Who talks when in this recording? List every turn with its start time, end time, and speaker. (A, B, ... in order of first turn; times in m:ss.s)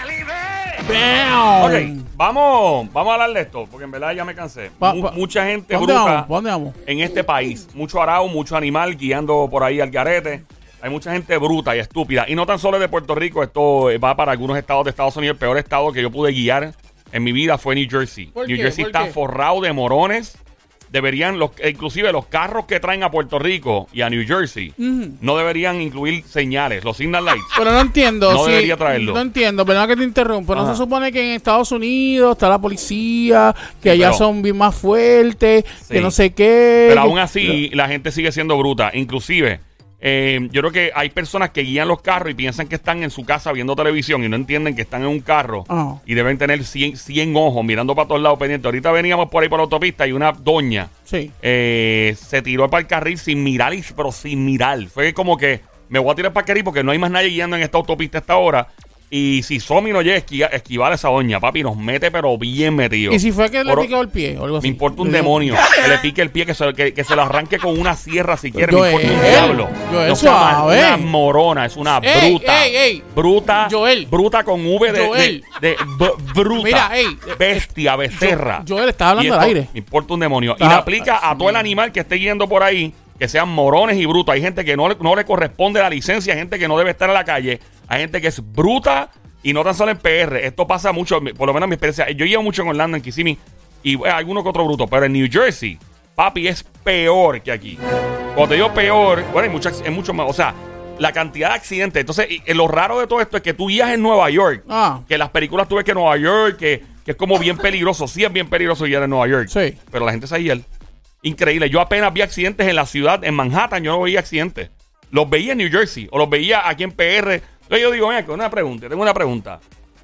0:00.8-0:02.0 A
0:01.6-0:06.3 B
0:04.8-0:06.8 A
0:06.8-0:27.6 B
0:18.3-0:19.2 A
0:24.8-0:25.2 A
0:27.5-0:37.6 A
0:28.2-0:29.2 B
0:30.5-0:30.8 B
0:33.8-0:34.2 B
0:35.8-0:36.2 B
0:36.9-1:03.9 B
0:45.7-0:46.0 A
0:51.0-0:51.3 A
1:03.1-1:05.8 A
1:04.6-1:37.8 B
1:08.5-1:11.1 A
1:12.0-1:14.1 A
1:14.9-1:15.5 A
1:16.5-1:19.7 A
1:20.6-1:21.7 A
1:38.3-1:50.6 B
1:44.7-1:45.0 A
1:49.5-1:49.8 A
1:51.2-1:59.6 B